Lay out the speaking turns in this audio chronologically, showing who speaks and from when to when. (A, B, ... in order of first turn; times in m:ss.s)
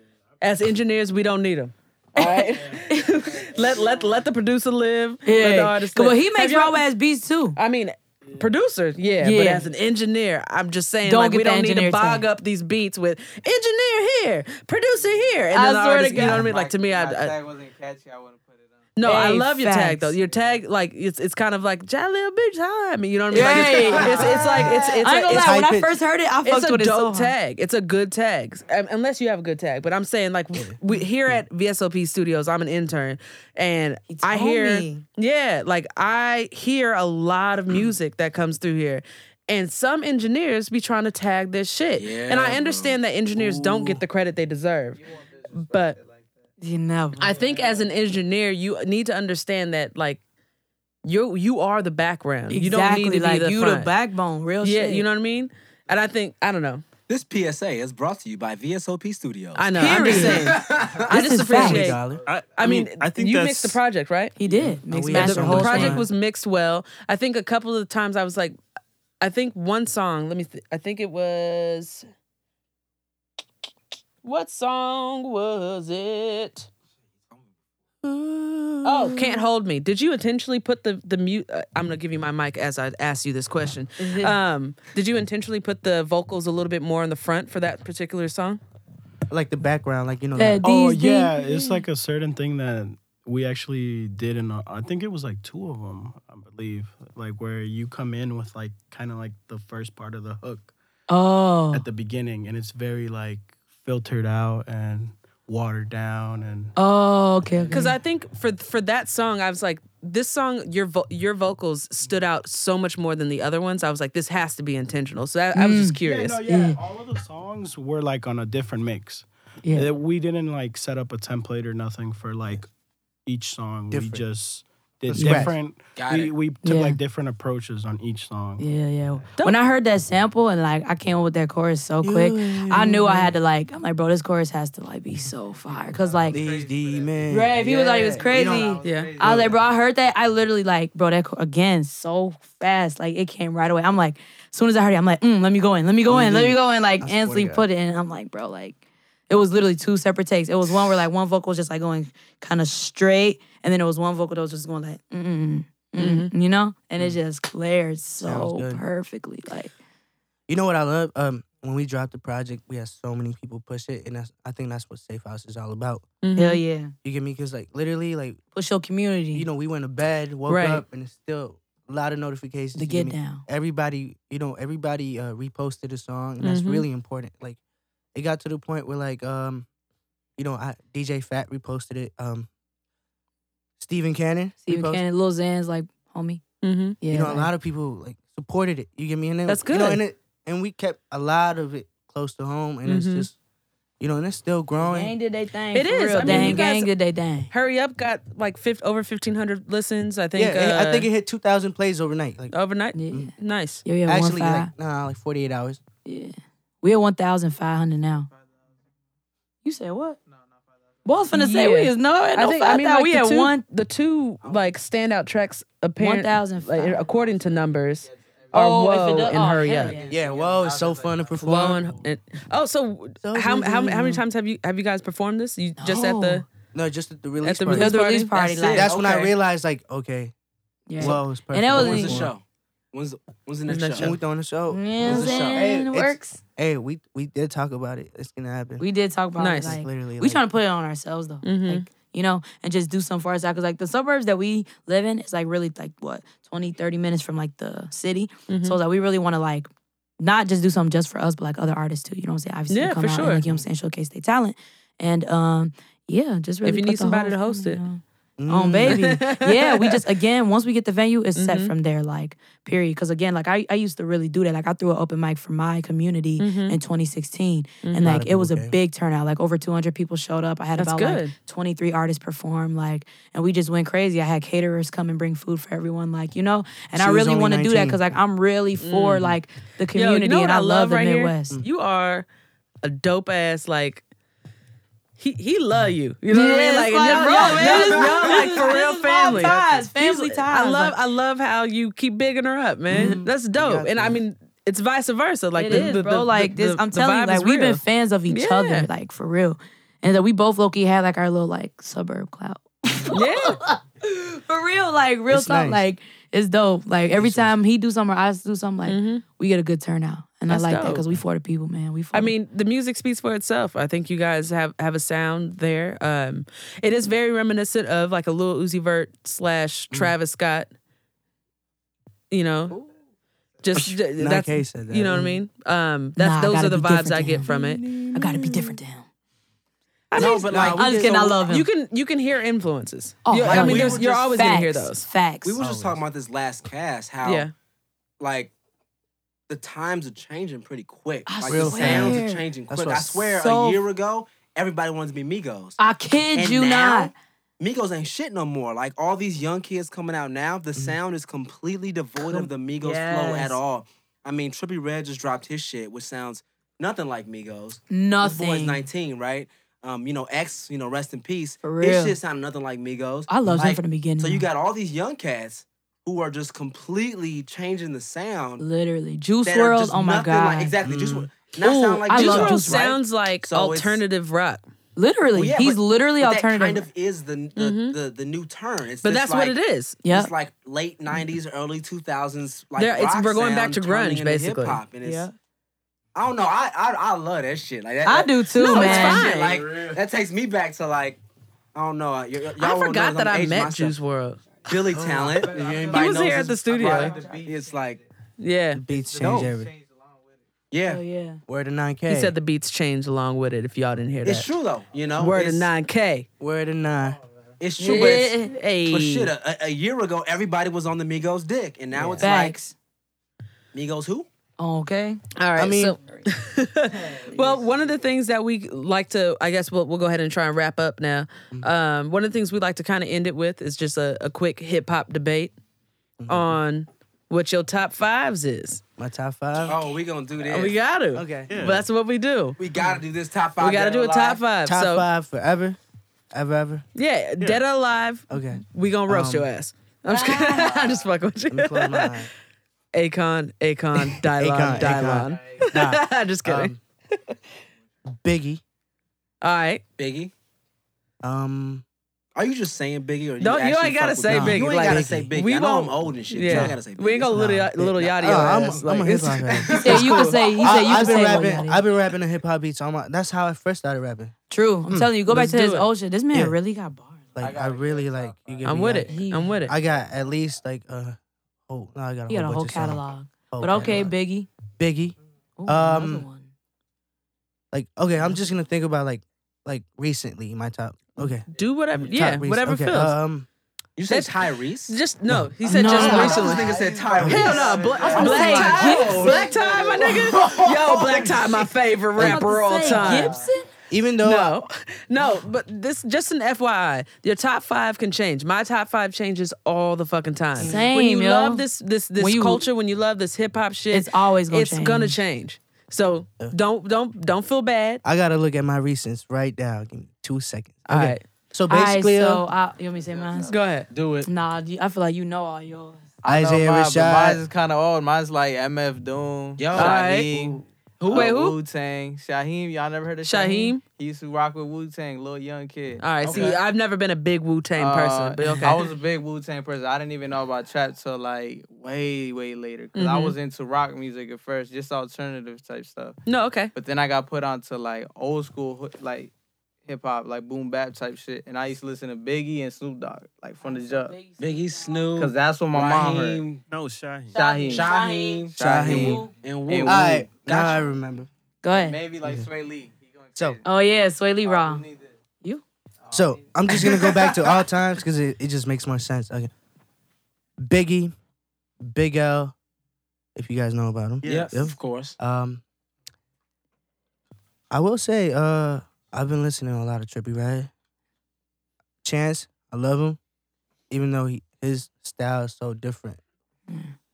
0:00.4-0:06.8 A
0:02.2-0:03.2 B
0:02.2-0:02.5 C
0:05.2-0:07.6 B
0:07.6-0:17.3 A
0:09.2-0:09.7 B
0:11.0-0:12.2 B
0:15.5-0:16.5 B
0:16.3-0:18.9 C
0:19.0-0:25.6 A
0:19.0-0:20.1 B
0:23.3-0:27.3 B
0:23.4-0:24.4 C
0:24.1-0:25.0 D
0:25.3-0:25.9 E
0:26.4-0:45.0 A
0:34.1-0:35.0 B
0:42.0-0:43.0 D
0:43.5-0:44.0 D
0:45.0-0:46.4 C
0:45.6-0:46.0 A
0:46.6-0:47.3 B
0:47.2-0:50.2 A
0:47.2-0:47.9 C
0:51.0-0:53.9 A
0:52.5-0:55.0 B
0:54.6-0:56.8 A
0:57.1-1:01.2 D
0:59.6-1:02.0 A
0:59.8-1:00.6 B
1:01.1-1:02.0 B
1:01.3-1:02.2 E
1:02.2-1:03.8 F
1:02.6-1:04.3 A
1:04.4-1:06.1 B
1:04.5-1:06.1 E
1:05.1-1:08.6 A
1:09.2-1:12.0 A
1:14.2-1:16.7 A
1:18.0-1:19.5 E
1:18.8-1:28.6 A
1:24.0-1:24.3 B
1:29.3-1:30.6 E
1:30.4-1:31.8 B
1:30.6-1:40.7 G
1:41.1-1:41.8 B
1:41.7-1:46.7 G
1:46.8-1:48.0 B
1:47.7-1:56.4 A
1:55.5-1:56.8 B
1:56.0-2:02.7 G
1:59.6-1:59.9 B
2:03.3-2:08.7 G
2:03.9-2:04.2 E
2:05.1-2:05.5 E
2:05.1-2:05.5 B
2:06.0-2:06.3 D
2:06.6-2:07.0 B
2:08.6-2:16.4 B
2:12.0-2:13.3 E
2:15.7-2:19.6 C
2:16.3-2:19.6 E
2:17.3-2:28.8 B
2:18.8-2:19.1 A
2:26.1-2:27.7 E
2:29.3-2:39.7 B
2:36.0-2:36.3 A
2:38.2-2:38.8 E
2:40.5-2:46.0 E
2:46.2-2:46.6 A
2:46.4-2:46.9 B
2:47.0-2:48.4 E
2:48.6-2:49.4 B
2:49.3-2:57.6 E
2:50.5-2:50.8 A
2:52.7-2:53.4 B
2:56.4-2:56.8 A
2:58.1-2:59.7 E
3:00.4-3:02.5 E
3:03.8-3:05.0 E
3:04.6-3:06.4 B
3:06.6-3:07.0 A
3:07.0-3:07.5 B
3:07.1-3:13.3 E
3:09.5-3:10.0 A
3:12.9-3:13.3 A
3:14.0-3:15.1 E
3:14.8-3:17.5 B
3:15.7-3:16.9 A
3:16.2-3:16.6 E
3:17.5-3:21.1 A
3:20.4-3:22.5 E
3:22.5-3:23.8 A
3:22.9-3:23.3 B
3:23.8-3:24.7 B
3:24.0-3:25.8 E
3:26.0-3:28.3 B
3:28.3-3:28.8 C
3:29.6-3:30.2 B
3:30.3-3:31.1 C
3:31.0-3:33.6 B
3:31.3-3:40.0 A
3:36.0-3:37.2 B
3:37.1-3:38.8 C
3:38.5-3:40.1 B
3:39.6-3:41.5 C
3:40.1-3:41.9 E
3:41.4-3:46.4 A
3:43.2-3:44.2 E
3:45.8-3:46.4 B
3:46.7-3:48.0 E
3:47.4-3:48.6 A
3:47.7-3:48.9 B
3:48.4-3:49.3 D
3:48.7-3:50.3 E
3:50.9-3:52.2 B
3:51.0-3:52.3 E
3:51.7-3:54.2 D
3:53.7-3:54.2 A
3:54.0-3:58.9 E
3:54.7-3:56.4 B
3:55.0-3:55.7 D
3:58.8-4:09.7 B
3:59.4-3:59.7 A
3:59.6-4:00.4 E
4:01.4-4:01.9 A
4:08.5-4:08.8 A
4:10.2-4:41.6 B
4:12.7-4:13.4 A
4:16.6-4:17.8 A
4:18.4-4:19.1 E
4:18.9-4:20.0 A
4:21.4-4:21.7 A
4:26.4-4:26.8 A
4:27.8-4:28.1 A
4:28.0-4:28.7 E
4:30.8-4:31.3 A
4:36.9-4:38.0 E
4:38.8-4:39.3 A
4:40.0-4:42.2 A
4:42.8-4:44.0 A
4:45.2-4:58.9 A
4:46.3-4:51.0 B
4:52.9-4:54.2 E
4:52.9-4:53.2 B
4:55.6-5:12.3 B
5:03.1-5:03.6 A
5:05.3-5:05.8 E
5:07.2-5:07.5 E
5:08.8-5:09.2 A
5:10.5-5:11.0 A
5:12.1-5:20.7 A
5:22.3-5:22.8 A
5:23.6-5:28.5 A
5:23.8-5:25.4 E
5:26.2-5:27.5 B
5:28.1-5:29.0 B
5:30.1-5:30.8 A
5:30.1-5:31.5 D
5:30.2-5:31.7 B
5:30.5-5:30.8 E
5:31.5-5:35.1 A
5:33.2-5:35.6 B
5:33.4-5:34.5 D
5:35.4-5:37.5 D
5:35.6-5:36.0 E
5:37.2-5:37.5 A
5:38.2-5:38.5 D
5:39.5-5:45.8 D
5:41.3-5:42.4 B
5:41.4-5:43.3 E
5:43.3-5:43.8 B
5:45.8-5:47.1 B
5:46.3-6:08.6 D
5:52.2-5:53.6 B
5:57.9-5:58.8 B
6:01.6-6:02.2 B
6:03.3-6:04.4 B
6:08.6-6:10.7 B
6:09.4-6:14.0 D
6:10.8-6:11.3 E
6:11.6-6:12.8 B
6:12.1-6:14.6 A
6:15.0-6:16.8 B
6:15.3-6:19.6 D
6:17.6-6:18.0 A
6:19.0-6:20.0 A
6:20.0-6:20.3 B
6:20.1-6:25.3 D
6:22.8-6:24.8 A
6:25.0-6:25.3 B
6:26.1-6:31.2 D
6:28.0-6:29.3 B
6:28.6-6:29.7 A
6:29.5-6:30.0 C
6:31.7-6:34.0 D
6:32.6-6:34.6 A
6:34.7-6:38.0 D
6:34.9-6:35.6 E
6:35.1-6:38.0 C
6:35.9-6:37.2 A
6:38.4-6:38.8 A
6:38.7-6:39.7 E
6:38.9-6:40.5 C
6:39.2-6:39.5 D
6:40.7-6:41.0 D
6:40.8-6:41.4 B
6:41.5-6:42.3 E
6:42.1-6:44.5 A
6:44.2-6:45.7 D
6:45.2-6:46.3 A
6:46.4-6:47.2 E
6:47.6-6:52.6 D
6:47.8-6:48.5 B
6:47.8-6:49.3 A
6:51.9-6:52.2 E
6:52.2-6:52.7 B
6:53.7-6:54.3 D
6:54.6-6:55.2 B
6:55.4-7:05.5 A
6:55.6-6:56.0 E
6:57.0-6:58.0 C
7:06.2-7:06.6 E
7:06.3-7:08.8 A
7:09.0-7:09.8 E
7:09.6-7:10.8 D
7:10.4-7:12.6 A
7:11.1-7:11.8 E
7:11.5-7:11.8 F
7:12.6-7:14.4 D
7:13.6-7:15.0 A
7:14.6-7:15.8 E
7:16.3-7:16.8 E
7:17.0-7:22.3 A
7:18.3-7:19.5 E
7:20.1-7:20.9 B
7:20.6-7:21.0 C
7:21.5-7:22.3 E
7:22.9-7:27.4 A
7:24.1-7:26.8 E
7:24.7-7:25.7 C
7:28.1-7:28.6 E
7:29.4-7:29.8 A
7:30.0-7:30.3 D
7:31.2-7:31.8 E
7:32.4-7:37.4 D
7:33.4-7:40.4 A
7:34.3-7:35.3 E
7:36.4-7:36.8 E
7:37.3-7:44.3 E
7:39.7-7:40.2 D
7:39.7-7:41.8 B
7:44.5-7:47.3 B
7:44.9-7:45.1 E
7:45.3-7:45.9 A
7:47.3-7:49.1 E
7:47.4-7:49.6 C
7:48.6-7:49.7 A
7:49.0-7:49.6 B
7:49.6-7:51.2 E
7:51.7-7:54.1 E
7:52.3-7:54.5 B
7:54.8-7:56.3 E
7:55.6-7:56.5 B
7:57.7-8:01.5 E
8:01.5-8:03.2 A
8:02.0-8:03.5 E
8:04.0-8:05.0 D
8:04.1-8:13.4 A
8:05.6-8:06.7 B
8:05.8-8:11.6 D
8:06.0-8:10.1 C
8:07.2-8:07.6 E
8:08.1-8:09.6 B
8:12.2-8:12.4 E
8:12.2-8:13.7 B
8:12.8-8:13.5 C
8:13.9-8:14.6 E
8:14.2-8:28.0 A
8:20.6-8:20.8 E
8:20.6-8:21.6 B
8:22.2-8:22.6 B
8:23.9-8:25.2 B
8:28.0-8:32.4 E
8:30.9-8:31.2 A
8:31.7-8:33.5 B
8:33.0-8:33.6 C
8:33.5-8:33.9 A
8:33.9-8:34.3 D
8:34.2-8:36.1 B
8:36.2-8:46.6 C
8:36.2-8:37.4 E
8:39.6-8:40.0 D
8:39.7-8:40.5 A
8:41.0-8:41.3 D
8:41.0-8:41.6 A
8:43.2-8:43.8 A
8:46.0-8:48.9 A
8:46.2-8:46.6 D
8:47.8-8:56.2 C
8:53.0-8:53.3 A
8:56.3-8:56.7 A
8:56.7-8:59.3 C
8:59.9-9:04.3 C
9:03.6-9:04.8 B
9:04.4-9:06.6 D
9:05.1-9:06.4 C
9:06.7-9:07.4 F
9:07.3-9:09.3 B
9:07.3-9:10.3 C
9:07.7-9:10.8 D
9:08.6-9:09.3 E
9:09.8-9:11.3 E
9:11.6-9:12.0 B
9:11.7-9:13.7 C
9:12.2-9:12.5 E
9:13.6-9:14.8 B
9:14.4-9:15.2 C
9:16.0-9:17.6 C
9:16.1-9:19.5 E
9:20.6-9:21.1 E
9:21.8-9:22.5 E
9:23.3-9:25.6 E
9:24.2-9:24.6 F
9:24.2-9:25.2 D
9:27.7-9:30.7 E
9:32.0-9:33.2 E
9:33.9-9:36.2 E